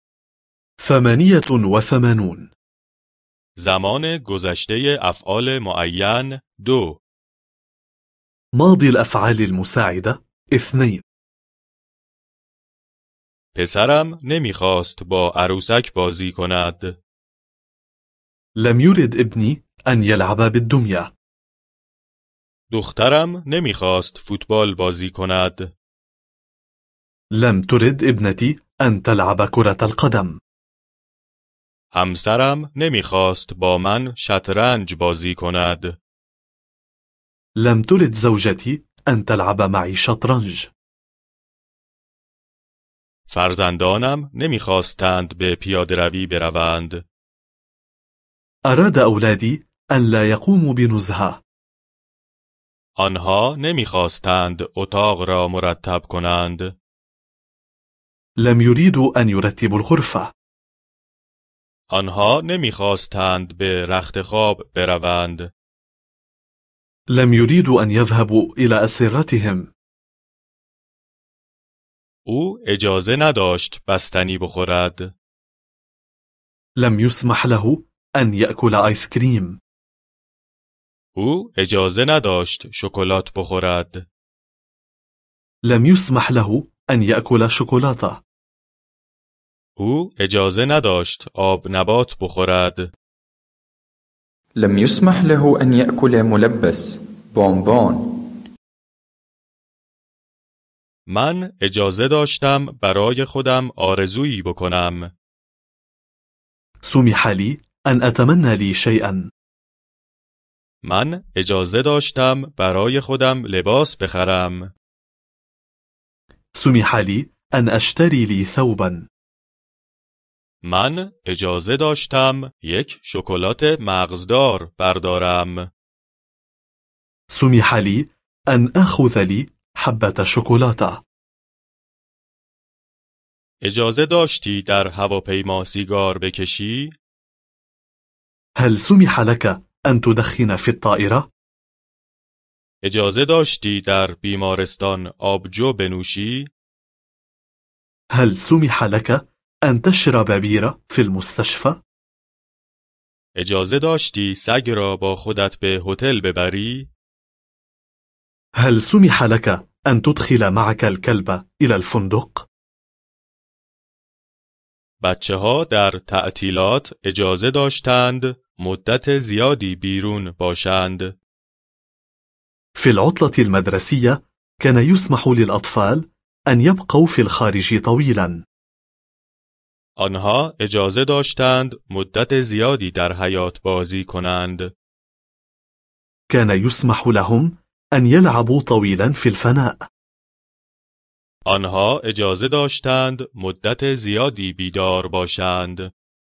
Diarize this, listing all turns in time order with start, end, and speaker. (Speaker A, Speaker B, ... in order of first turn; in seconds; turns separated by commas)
Speaker A: 0.8-2.5, Speaker B: 3.6-7.0, Speaker A: 8.6-11.0, Speaker B: 13.6-17.0, Speaker A: 18.6-21.1, Speaker B: 22.7-25.7, Speaker A: 27.3-30.4, Speaker B: 31.9-36.0, Speaker A: 37.6-40.7, Speaker B: 43.3-47.0, Speaker A: 48.7-51.4, Speaker B: 53.0-56.8, Speaker A: 58.4-60.3, Speaker B: 61.9-65.5, Speaker A: 67.1-69.7, Speaker B: 72.3-75.1, Speaker A: 76.8-79.6, Speaker B: 81.2-84.1, Speaker A: 85.7-88.2, Speaker B: 89.8-92.9, Speaker C: 94.6-98.3, Speaker B: 101.1-105.1, Speaker A: 106.8-109.3, Speaker B: 110.8-114.7, Speaker A: 116.5-119.1, Speaker B: 120.6-125.7, Speaker A: 127.3-131.0, Speaker B: 133.6-136.9, Speaker A: 138.6-141.3, Speaker B: 142.8-146.5, Speaker A: 148.1-151.8, Speaker B: 153.4-156.9, Speaker A: 158.6-162.5, Speaker B: 165.0-171.2, Speaker A: 172.8-178.4, Speaker B: 180.0-184.7, Speaker A: 186.3-189.8, Speaker B: 191.5-195.9